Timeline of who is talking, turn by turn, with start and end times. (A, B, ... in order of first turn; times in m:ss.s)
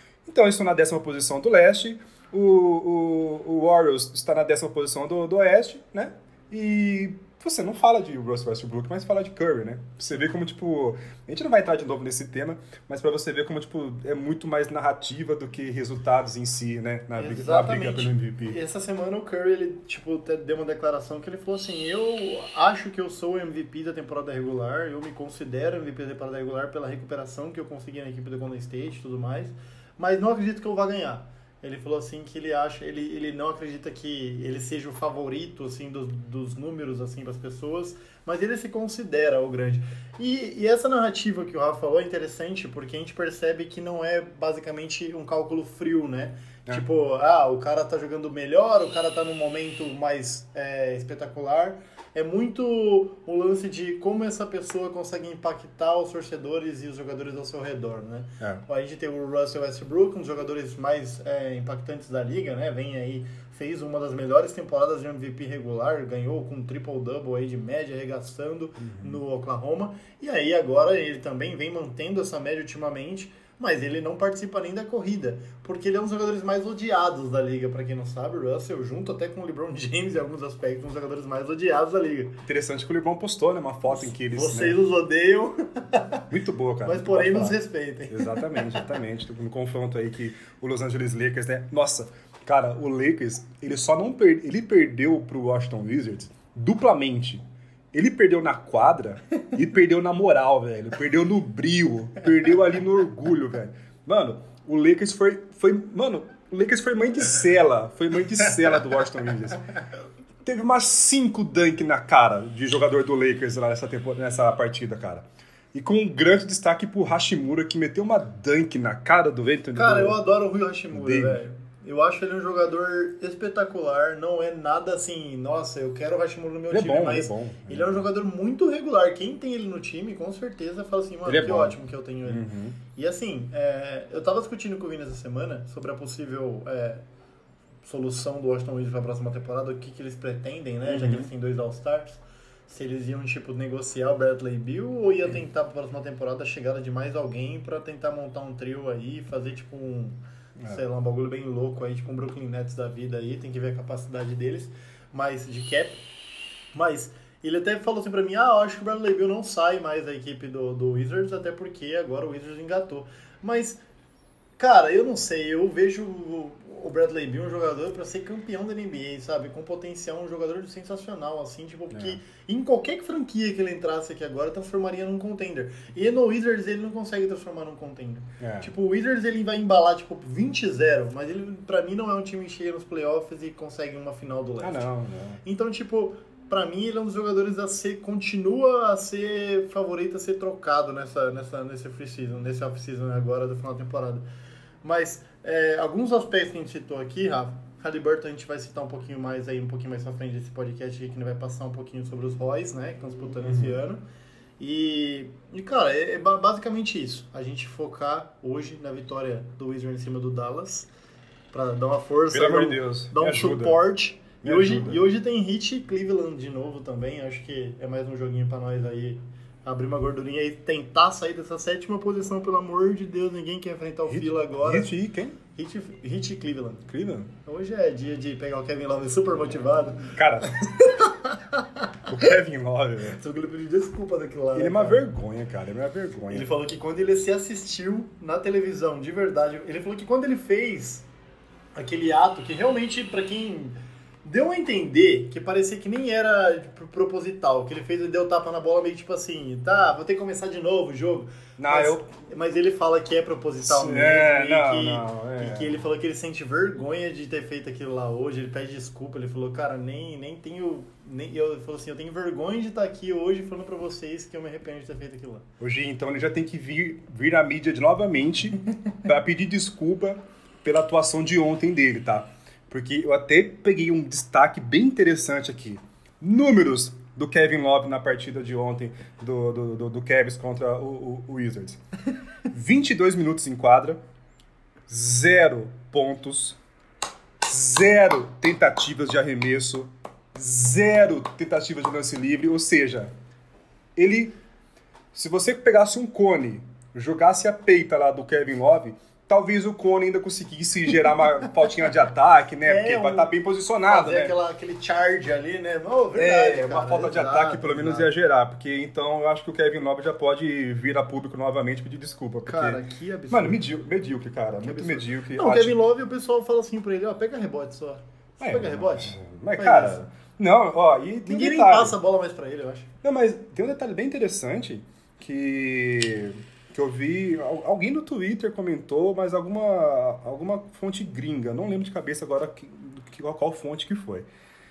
0:00.2-0:18.6 A
0:17.2-1:22.4 B
1:08.8-1:09.2 A
1:22.5-1:24.8 A
1:23.9-1:26.3 B
1:26.3-1:49.6 A
1:26.8-1:28.9 B
1:50.4-2:00.2 A
1:59.8-2:17.0 B
2:00.9-2:01.4 A
2:06.7-2:08.1 A
2:11.3-2:12.8 A
2:17.8-2:36.0 B
2:20.8-2:21.3 A
2:36.7-2:43.8 B
2:44.6-3:04.9 B
2:51.9-2:52.2 A
2:58.4-2:58.7 A
3:04.6-3:05.4 A
3:05.4-3:14.3 B
3:14.8-3:24.0 B
3:23.4-3:23.8 A
3:24.6-3:30.9 B
3:31.5-3:44.9 B
3:32.3-3:33.8 A
3:34.4-3:35.0 A
3:44.1-3:45.4 A
3:45.5-3:46.9 B
3:46.9-3:47.3 A
3:47.4-3:52.0 B
3:50.0-3:50.6 A
3:52.1-3:53.2 A
3:53.2-3:55.0 B
3:54.5-3:56.5 A
3:56.3-4:01.1 B
4:01.8-4:25.5 B
4:11.6-4:12.1 A
4:13.6-4:15.8 A
4:25.6-4:41.8 A
4:42.5-4:44.0 A
4:44.9-4:46.6 A
4:47.4-4:53.1 A
4:54.0-4:54.4 A
4:55.1-5:04.4 A
5:02.6-5:03.3 B
5:03.9-5:08.1 B
5:06.2-5:15.8 A
5:12.5-5:13.7 B
5:14.6-5:20.1 B
5:18.4-5:22.0 A
5:21.3-5:22.9 B
5:23.0-5:34.3 A